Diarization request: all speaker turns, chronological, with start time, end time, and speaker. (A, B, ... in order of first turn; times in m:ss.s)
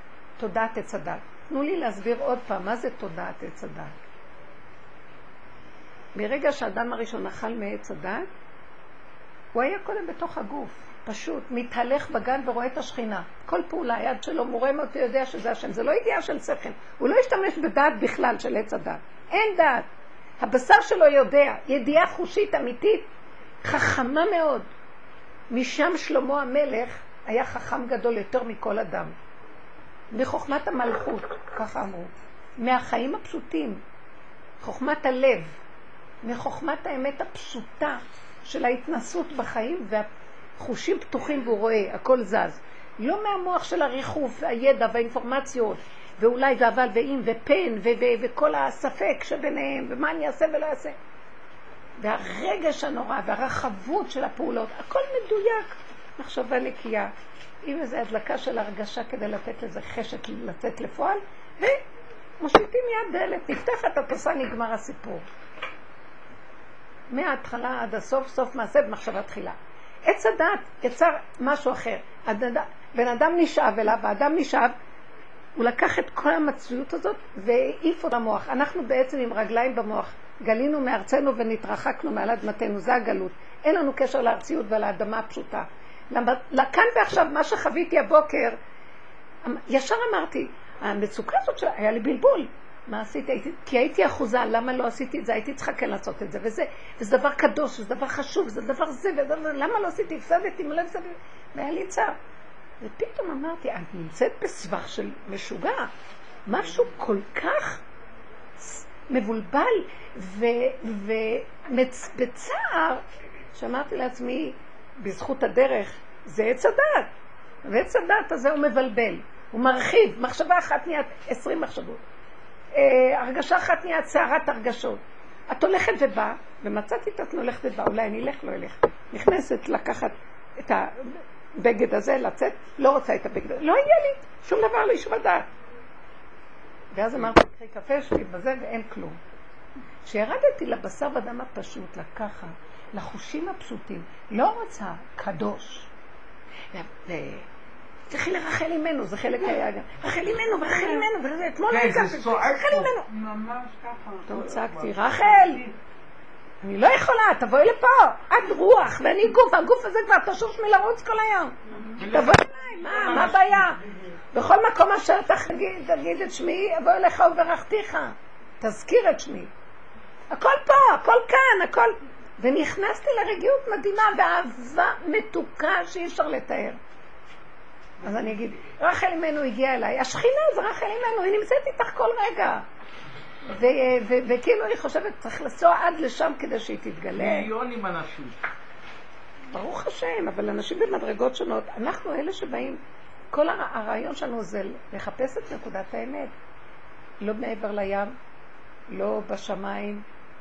0:00.4-0:03.9 A
0:06.2-0:08.3 A
0:09.5-0:19.9 A
0:20.4-0:23.1 A
0:23.6-0:24.7 A
0:25.5-0:29.2 A
0:30.1-0:33.8 A
0:34.6-0:35.5 A
0:36.2-0:51.0 A
0:52.0-0:57.1 A
0:57.6-1:01.8 A
1:02.4-1:05.2 A
1:07.1-1:09.6 A
1:10.1-1:14.7 A
1:15.6-1:28.6 A
1:29.4-1:42.2 A
1:42.8-1:45.9 A
1:46.5-1:47.8 A
1:48.6-1:53.0 A
1:53.5-1:57.1 A
1:57.6-2:02.0 A
2:02.7-2:15.5 A
2:16.9-2:19.2 A
2:20.0-2:25.9 A
2:26.7-2:27.5 A
2:28.1-2:33.1 A
2:31.7-2:32.9 B
2:33.1-2:35.8 C
2:34.3-2:35.6 A
2:36.6-2:43.8 A
2:42.0-2:43.7 B
2:44.3-2:49.5 A
2:50.3-2:56.8 A
2:58.0-3:02.6 A
3:03.5-3:07.5 A
3:07.2-3:08.4 B
3:09.5-3:16.3 A
3:17.2-3:18.1 A
3:18.9-3:20.0 A